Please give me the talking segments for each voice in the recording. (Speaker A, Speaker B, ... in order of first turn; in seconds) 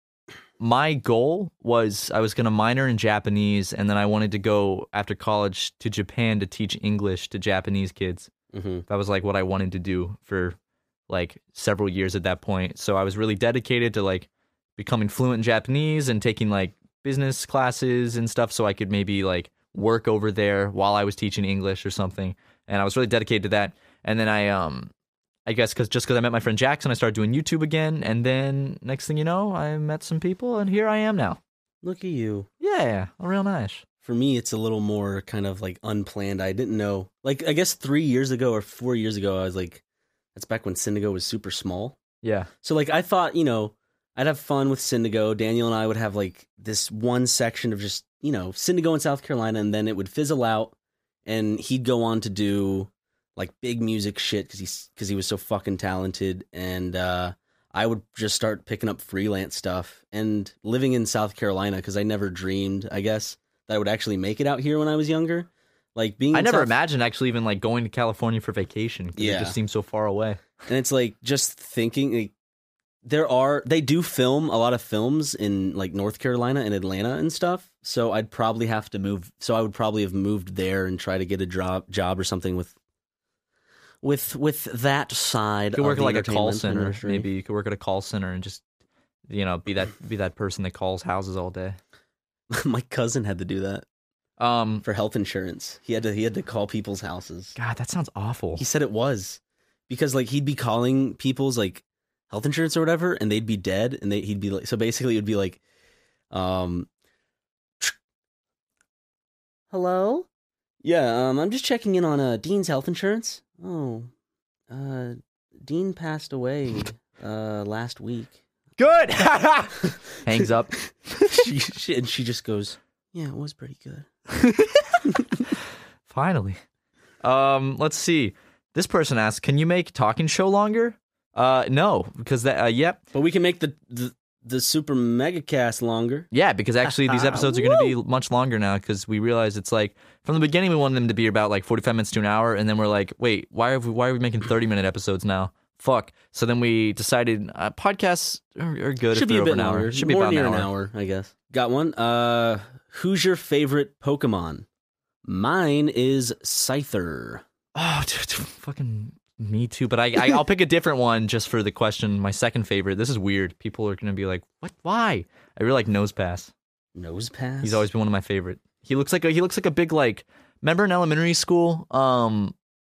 Speaker A: 0.6-8.3, 8.9-10.6, 11.1-24.9, 25.4-31.4, 32.6-33.8, 42.2-42.5, 66.3-70.4, 85.7-88.6, 89.3-91.8, 94.4-94.8, 97.6-98.6, 118.8-120.8, 124.3-125.1, 126.1-126.6, 127.2-133.0, 136.3-150.7, 157.7-166.5, 167.6-172.5
Speaker B: 8.5-8.8, 31.8-32.5, 34.0-39.8, 40.3-42.0, 42.6-50.7, 51.2-66.8, 69.2-69.5, 70.7-72.3, 73.0-82.7, 84.0-87.3, 92.5-93.8, 94.8-97.6, 98.6-105.6, 106.3-106.9, 109.7-110.2, 110.8-114.1, 114.7-118.4, 121.2-124.1, 133.1-136.3, 137.0-137.9, 149.1-154.7, 155.2-157.4, 166.9-167.8